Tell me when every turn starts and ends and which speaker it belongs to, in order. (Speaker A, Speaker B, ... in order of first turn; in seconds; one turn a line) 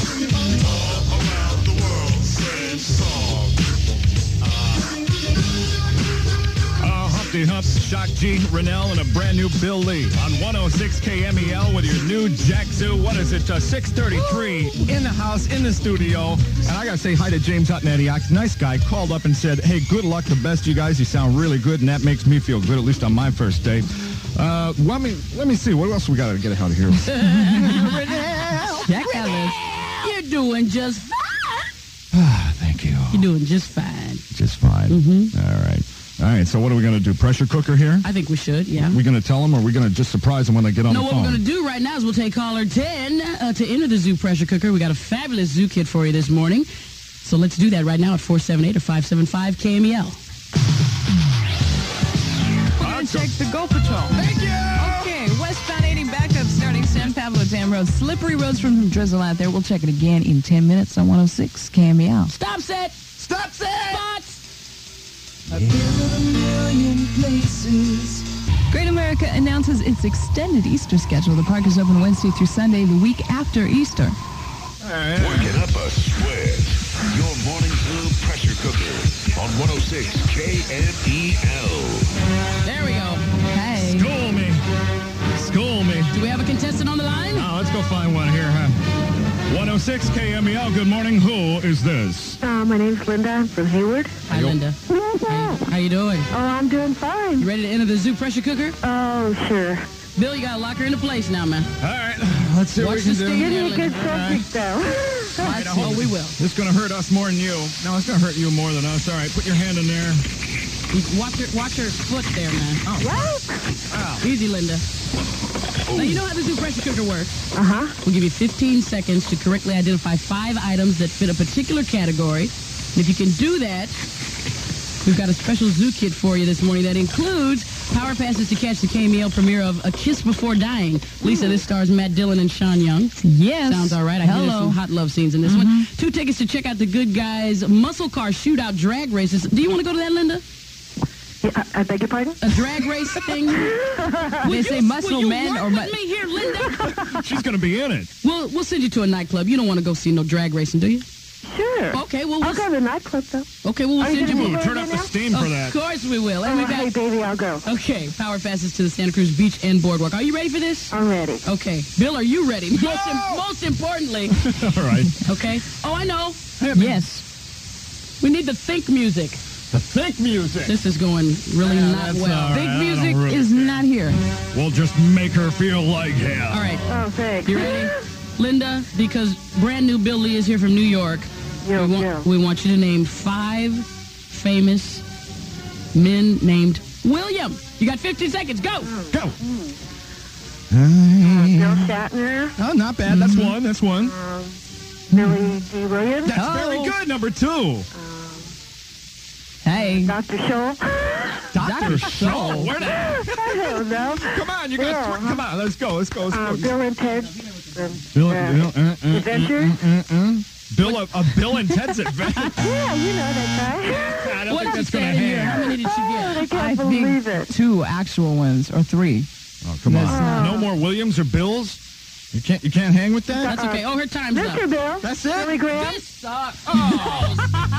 Speaker A: 1.3-3.3
Speaker A: 6.8-29.4
Speaker B: 28.8-29.6
Speaker C: 30.0-31.7
Speaker A: 32.1-33.3
Speaker C: 33.1-34.2
Speaker A: 34.3-38.1
Speaker C: 34.9-35.3
Speaker C: 38.0-39.0
Speaker A: 38.8-41.4
Speaker C: 40.9-46.7
Speaker C: 47.2-50.2
Speaker B: 52.8-62.3
Speaker A: 52.8-53.3
Speaker A: 54.1-55.1
Speaker C: 62.3-63.0
Speaker A: 63.2-64.0
Speaker C: 63.9-64.4
Speaker A: 65.5-68.2
Speaker B: 68.7-74.2
Speaker A: 74.8-75.6
Speaker D: 75.2-82.1
Speaker C: 82.6-83.3
Speaker B: 83.5-84.1
Speaker A: 83.8-84.6
Speaker A: 85.3-86.1
Speaker C: 86.1-87.5
Speaker A: 87.3-88.8
Speaker A: 89.5-92.4
Speaker E: 92.4-94.1
Speaker C: 94.3-96.3
Speaker A: 94.3-94.6
Speaker E: 94.9-95.6
Speaker E: 96.3-97.5
Speaker C: 97.4-98.8
Speaker E: 98.8-99.8
Speaker C: 100.2-101.7
Speaker A: 101.8-104.5
Speaker C: 102.8-103.9
Speaker E: 103.4-105.6
Speaker A: 105.4-110.3
Speaker C: 105.4-106.4
Speaker C: 110.9-112.8
Speaker A: 112.8-113.1
Speaker E: 113.0-113.6
Speaker A: 113.9-114.3
Speaker C: 114.2-114.8
Speaker C: 115.9-117.3
Speaker E: 117.5-118.0
Speaker C: 118.0-124.0
Speaker C: 125.0-140.4
Speaker B: 133.2-134.8
Speaker B: 135.4-135.9
Speaker E: 141.4-142.4
Speaker C: 142.4-143.7
Speaker E: 143.5-144.5
Speaker C: 144.4-146.9
Speaker B: 144.5-145.9
Speaker A: 146.7-148.1
Speaker C: 148.2-151.1
Speaker E: 151.5-155.1
Speaker C: 151.9-152.7
Speaker C: 153.6-154.6
Speaker A: 154.2-155.8
Speaker C: 155.3-156.9
Speaker E: 156.4-157.7
Speaker C: 157.7-164.4
Speaker E: 160.9-161.4
Speaker A: 162.8-163.4
Speaker A: 164.3-165.3
Speaker C: 165.2-166.4
Speaker A: 166.6-167.0
Speaker B: 166.7-167.2
Speaker C: 168.2-169.4
Speaker A: 169.7-170.8
Speaker C: 170.7-172.7
Speaker A: 171.6-173.8
Speaker B: 172.5-174.2
Speaker A: 174.5-176.8
Speaker C: 176.5-176.9
Speaker E: 176.9-177.9
Speaker C: 177.4-185.0
Speaker E: 181.6-182.3
Speaker C: 185.9-188.9
Speaker E: 188.8-189.8
Speaker A: 190.7-192.0
Speaker E: 191.2-192.6
Speaker A: 192.6-194.2
Speaker B: 193.1-193.6
Speaker E: 194.0-194.5
Speaker E: 195.1-196.4
Speaker B: 195.1-195.5
Speaker A: 196.3-197.9
Speaker B: 196.3-196.9
Speaker E: 197.9-198.5
Speaker B: 199.7-200.2
Speaker E: 199.9-201.5
Speaker A: 201.5-206.7
Speaker B: 201.6-202.8
Speaker E: 202.8-205.4
Speaker E: 206.3-209.8
Speaker A: 208.1-212.7
Speaker E: 212.6-214.3
Speaker A: 213.9-215.8
Speaker C: 214.5-216.5
Speaker E: 215.9-217.5
Speaker B: 216.5-219.3
Speaker A: 219.6-221.8
Speaker B: 219.8-220.6
Speaker E: 220.1-220.7
Speaker A: 222.3-223.6
Speaker E: 223.3-226.0
Speaker C: 223.4-224.7
Speaker A: 225.0-225.6
Speaker C: 225.7-227.5
Speaker A: 226.7-227.4